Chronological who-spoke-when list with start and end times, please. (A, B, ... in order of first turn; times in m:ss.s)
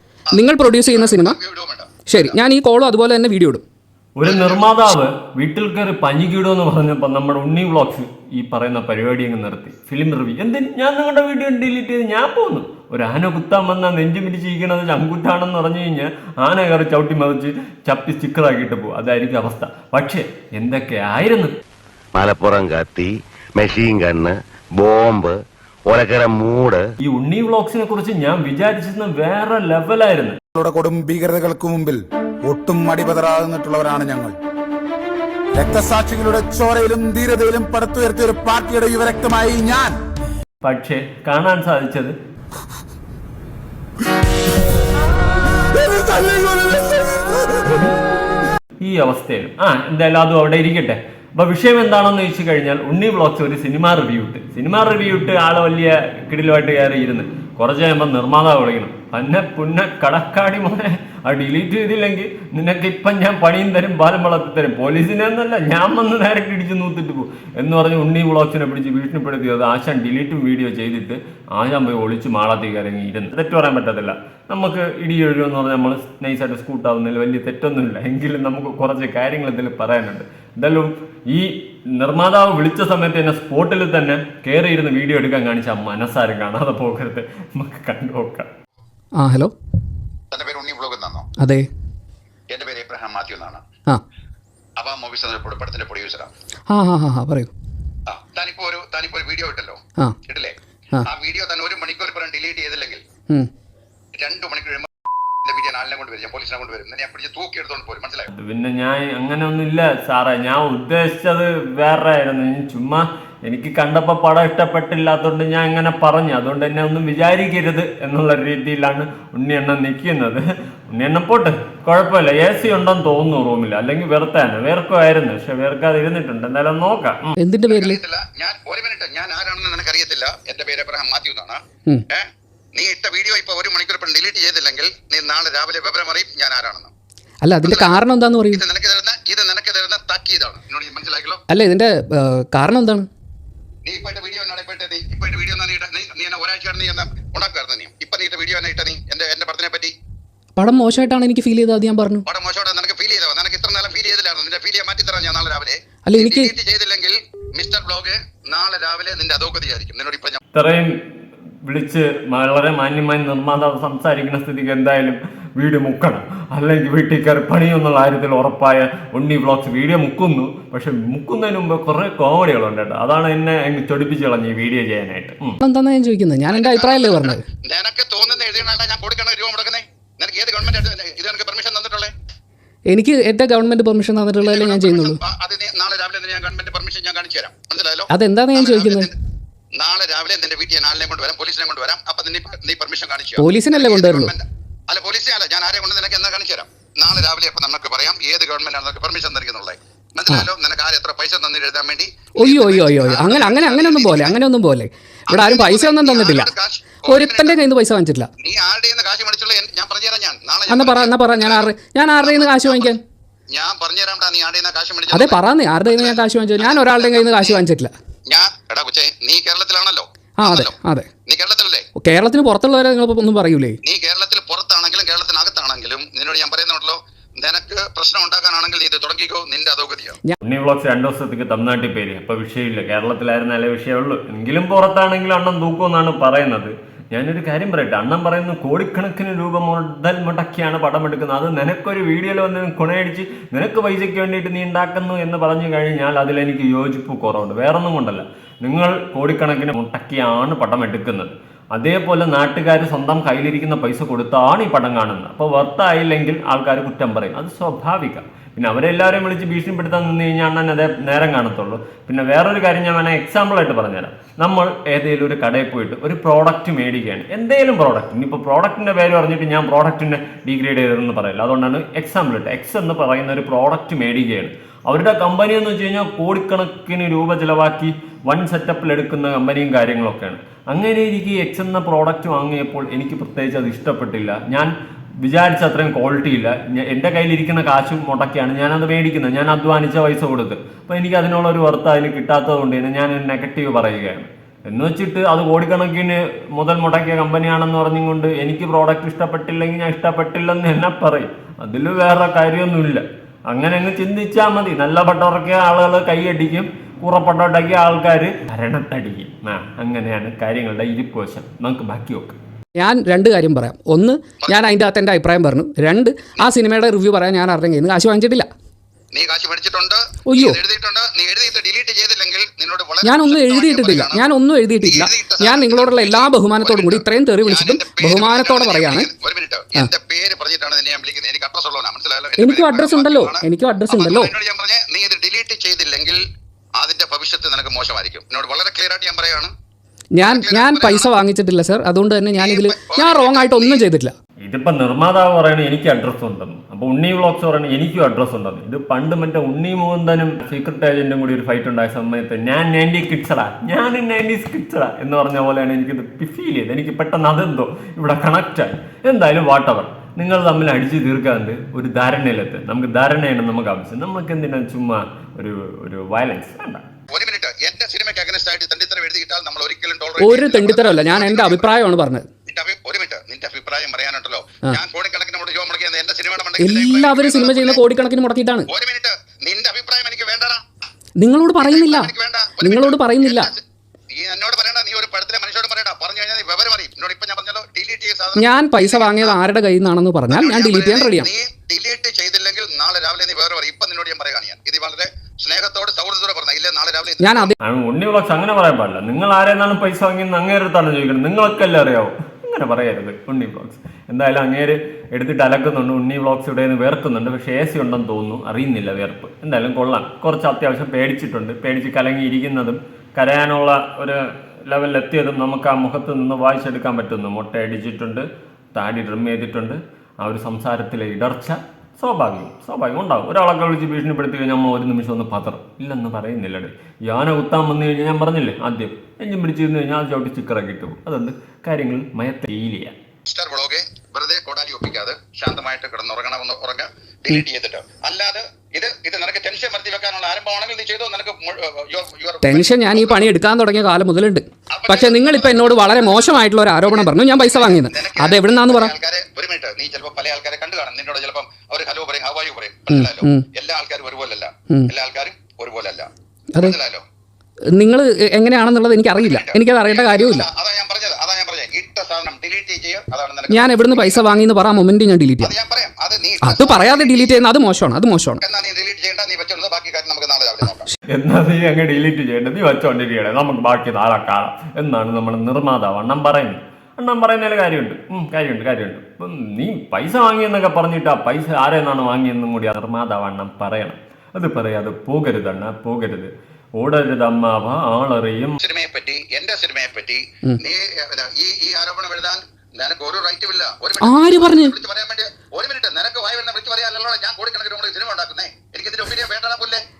0:00.3-0:01.4 A
0:00.3-0:02.4 B
0:02.1-0:03.6 A
0:04.2-0:21.5 C
0:04.2-0:04.6 B
0:22.1-0:26.8 D
0:27.0-0:30.4 C
0:30.6-0:34.4 E
0:35.5-0:40.0 E
0:40.6-0:42.1 C
0:45.7-0:47.7 E
0:48.8-1:28.5 C
1:29.2-1:29.5 A
1:30.3-1:31.3 B
1:31.4-1:31.7 A
1:32.5-1:33.6 B
1:34.8-1:36.3 B
1:36.7-1:37.5 A
1:38.1-1:43.0 B
1:44.1-1:44.9 B
1:45.4-1:48.3 B
1:48.3-2:07.4 C
2:07.4-2:08.0 A
2:07.7-2:16.9 B
2:17.4-2:18.6 A
2:17.6-2:17.9 B
2:18.5-2:21.4 B
2:21.5-2:23.1 A
2:23.8-2:29.9 B
2:30.6-2:32.2 A
2:32.2-2:40.4 B
2:36.0-2:36.5 A
2:40.5-2:40.9 C
2:41.6-2:55.6 C
2:55.6-2:57.4 A
2:56.5-3:02.1 B
3:02.9-3:05.2 A
3:04.4-3:09.1 B
3:08.1-3:09.1 A
3:09.7-3:24.4 B
3:13.4-3:14.3 A
3:22.4-3:26.5 A
3:25.3-3:27.6 B
3:27.1-3:28.3 A
3:28.4-3:33.0 B
3:30.7-3:33.0 A
3:33.5-3:37.6 B
3:35.1-3:37.9 A
3:38.3-3:40.7 B
3:40.4-3:41.1 A
3:41.3-3:41.9 B
3:42.0-3:43.8 A
3:43.8-3:50.2 B
3:50.4-4:44.7 C
4:45.2-5:12.4 C
5:12.8-5:18.5 A
5:14.4-5:14.7 B
5:19.1-5:24.2 B
5:20.3-5:20.6 A
5:23.0-5:29.1 A
5:24.8-5:36.2 B
5:32.4-5:34.3 A
5:36.8-5:39.5 B
5:40.2-5:44.1 A
5:40.2-5:41.1 B
5:42.4-5:43.8 B
5:44.4-6:06.8 C
6:07.1-6:11.7 B
6:10.2-6:12.2 A
6:12.5-6:17.8 B
6:16.6-6:18.7 A
6:18.7-6:20.6 B
6:21.2-6:23.5 A
6:21.6-6:29.4 B
6:28.4-6:31.3 A
6:30.3-6:37.5 B
6:37.2-6:37.6 A
6:37.6-7:12.9 C
7:13.2-7:23.2 B
7:22.4-7:28.9 A
7:24.7-7:36.1 B
7:32.9-7:33.4 A
7:36.6-7:37.0 B
7:37.8-7:40.5 A
7:39.2-7:44.4 B
7:43.5-7:45.5 A
7:45.4-7:47.4 B
7:46.4-7:48.4 A
7:48.4-7:50.9 B
7:51.1-8:08.6 C
8:08.6-8:19.8 B
8:14.0-8:14.7 A